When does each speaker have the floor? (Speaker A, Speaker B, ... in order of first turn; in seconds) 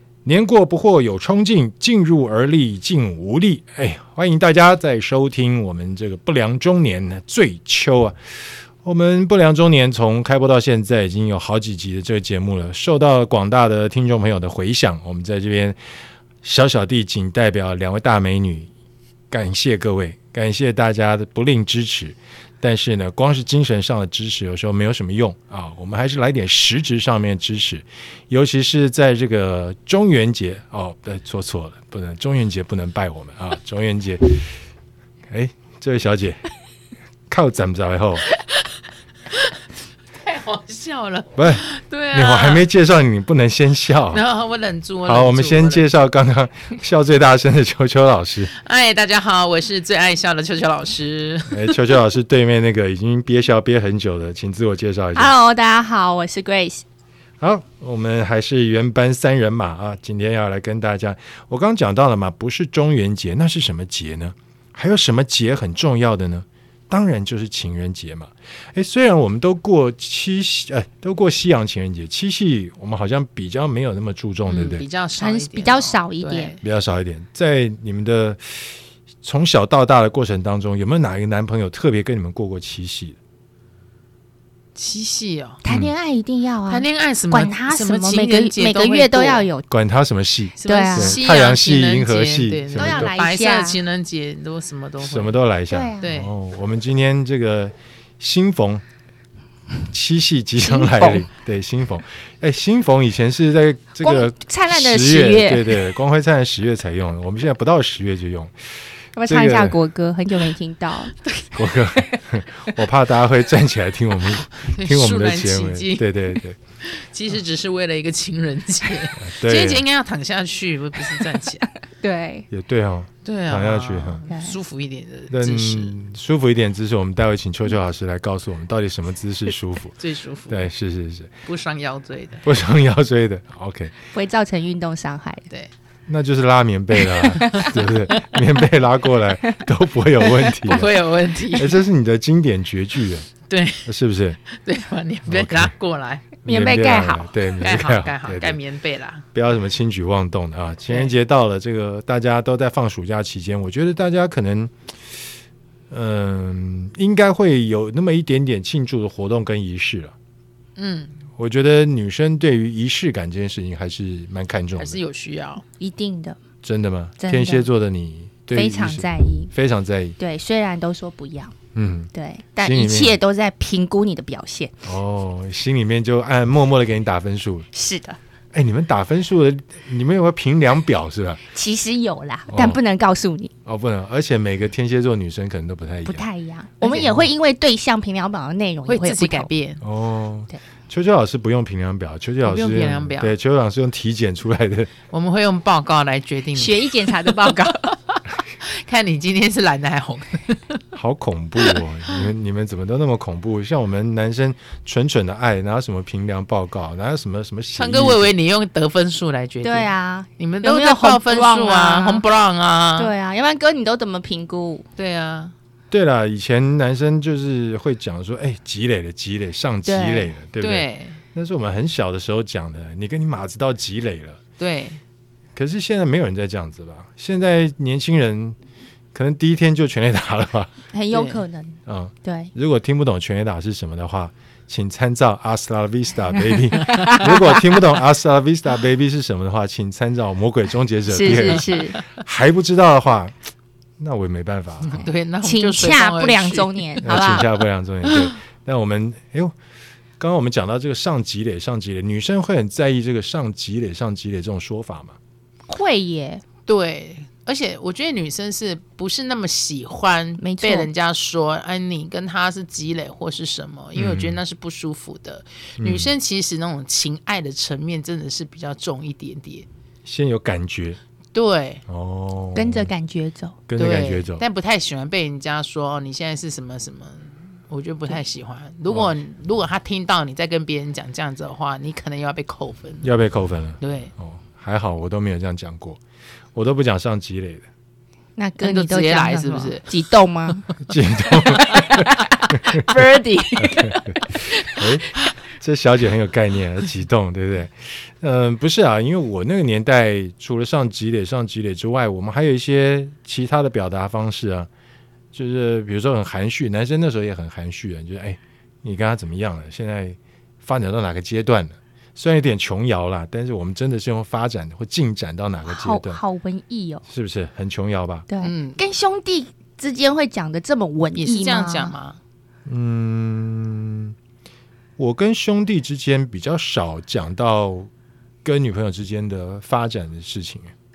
Speaker A: 0.2-15.8, 16.4-18.7, 19.3-34.6, 35.3-36.4, 37.3-38.3, 41.4-44.2, 45.0-48.5, 51.5-55.3, 57.4-74.9, 76.6-83.2, 89.7-93.1, 95.0-98.8, 99.9-108.5, 109.2-109.8, 111.5-116.6, 119.2-119.8, 122.5-124.2, 125.3-130.0, 130.5-131.4, 132.4-133.9, 136.1-140.9, 141.5-143.3, 143.9-144.4, 145.3-145.7, 146.4-148.6, 149.3-155.2, 155.9-160.2, 161.4-165.0, 166.6-170.2, 171.7-173.2, 174.8-177.7, 178.5-181.4, 182.5-182.8, 183.7-186.3, 186.8-187.3, 189.8-194.9, 200.9-208.3, 215.9-224.4, 225.6-228.6, 229.1-230.7, 231.9-243.4, 244.0-245.1, 247.0-249.6, 250.2-255.2, 263.9-264.4, 265.8-266.1, 270.1-271.0, 271.9-272.9, 273.7-274.4, 283.0-286.0, 286.6-287.7, 290.8-292.9, 293.6-304.7, 305.3-316.2, 317.1-318.3, 322.7-324.1, 325.0-327.9, 328.4-330.7
Speaker B: 38.4-38.7, 40.2-42.7, 44.1-45.9, 48.5-52.0, 74.5-76.6, 84.8-85.6, 86.7-89.5, 90.6-95.4, 96.0-96.3, 114.6-116.2, 116.8-121.7, 123.2-126.0, 130.0-130.7, 131.4-132.4, 137.2-138.4, 140.4-141.8, 143.5-143.9, 144.5-146.3, 147.6-149.2, 160.8-161.2, 164.8-165.6, 188.9-189.8, 192.4-193.3, 195.1-197.4, 198.6-200.8, 207.8-213.1, 215.0-215.5, 220.6-221.2, 224.6-225.0, 231.1-231.4, 241.2-241.7, 244.9-247.2, 248.1-248.3, 256.7-269.7, 271.3-271.8, 273.8-283.1, 283.8-284.1, 288.6-289.9, 318.4-318.8, 321.2-322.2
Speaker C: 55.1-56.9, 75.2-76.5, 85.6-89.7, 90.7-91.2, 92.8-93.8, 95.7-96.0, 100.6-101.3, 104.0-105.9, 109.2-111.2, 121.9-122.5, 124.3-124.6, 134.1-135.5, 137.4-137.7, 146.4-147.3, 165.8-166.4, 167.2-167.7, 168.5-169.5, 170.2-171.5, 172.1-174.8, 177.7-178.2, 181.5-183.5, 186.1-189.5, 196.6-197.9, 209.6-212.2, 213.0-214.9, 219.8-220.3, 230.9-232.5, 236.8-237.5, 241.1-242.0, 245.4-247.5, 255.7-256.4, 260.4-260.9, 272.6-273.6, 288.4-290.7, 291.4-294.8, 315.7-317.1, 318.3-321.9